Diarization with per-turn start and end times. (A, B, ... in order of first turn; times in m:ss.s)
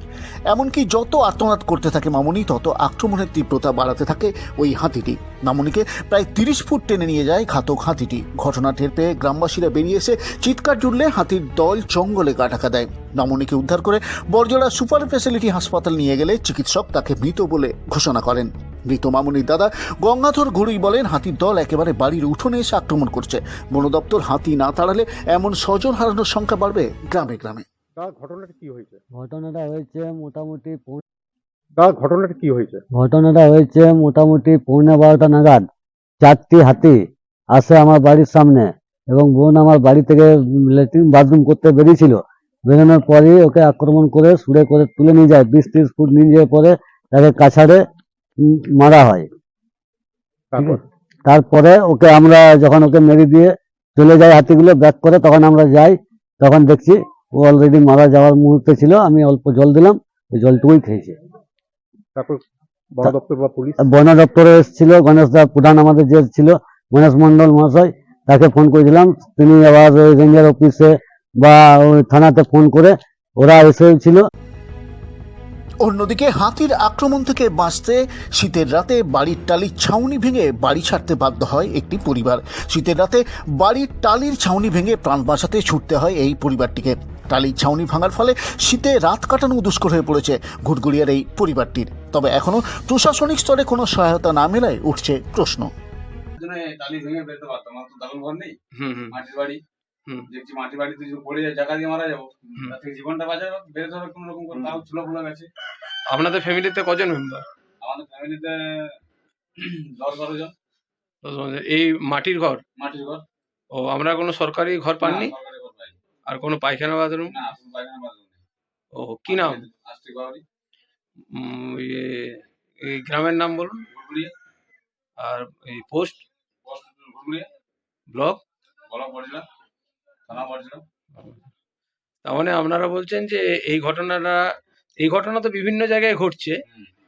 0:00.5-0:27.6 A
0:28.0-0:29.0 B
0:29.2-0:31.0 C
0:31.8-0:32.8 B
0:32.9-0:35.7 C
0:36.2-0:37.0 C
0:37.5-0:47.8 C
0:48.4-0:49.3 C
0:50.5-0:50.8 B
0:50.6-1:01.2 C
1:02.2-1:02.4 B
1:02.9-1:03.8 B
1:03.8-1:14.2 C
1:15.8-1:35.7 A
1:36.4-1:38.5 D
1:38.8-1:39.2 E
1:39.1-1:39.6 D
1:40.3-1:45.5 D
1:46.1-1:47.4 E
1:47.8-1:48.9 D
1:49.6-1:50.5 D
1:51.2-1:52.6 E
1:52.8-1:53.2 D
1:53.8-1:55.3 E
1:55.0-1:56.0 D
1:56.3-1:57.4 E
1:57.3-1:58.4 D
1:59.0-1:59.6 E
1:59.3-2:00.4 D
2:01.3-2:03.8 E
2:03.9-2:04.3 D
2:05.2-2:06.2 E
2:06.7-2:07.4 D
2:08.1-2:08.4 E
2:08.9-2:09.4 D
2:10.3-2:10.8 D
2:12.3-2:14.4 E
2:15.0-2:16.6 E